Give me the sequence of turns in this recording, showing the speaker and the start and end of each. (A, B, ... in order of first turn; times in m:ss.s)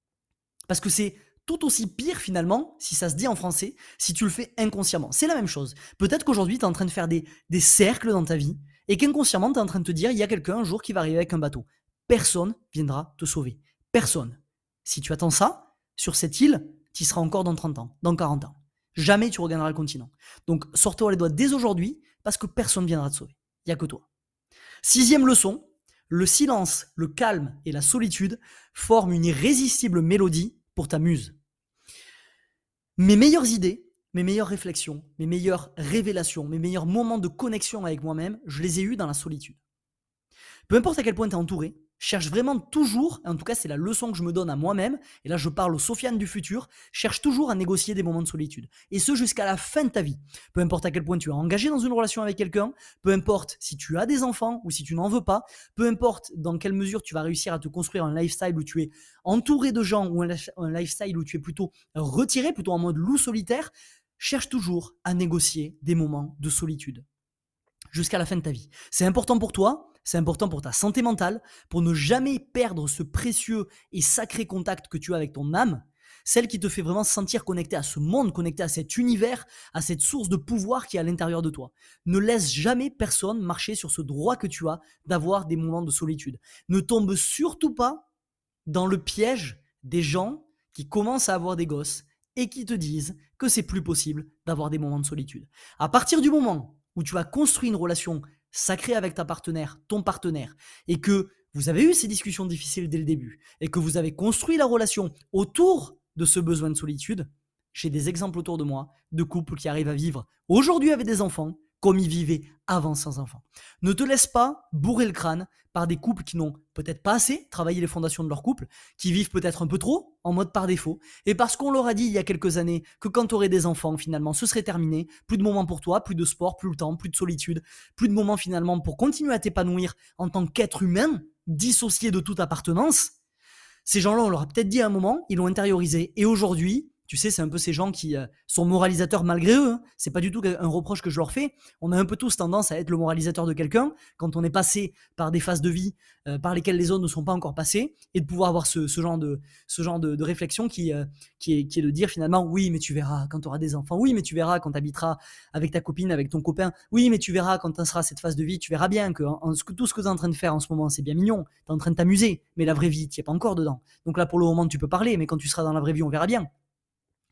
0:00.7-0:24.0 A
0:24.8-0:31.4 A
0:33.0-0:39.6 A
0:40.7-1:07.1 A
1:07.9-1:28.0 A
1:28.7-2:13.1 A
2:13.8-2:46.5 A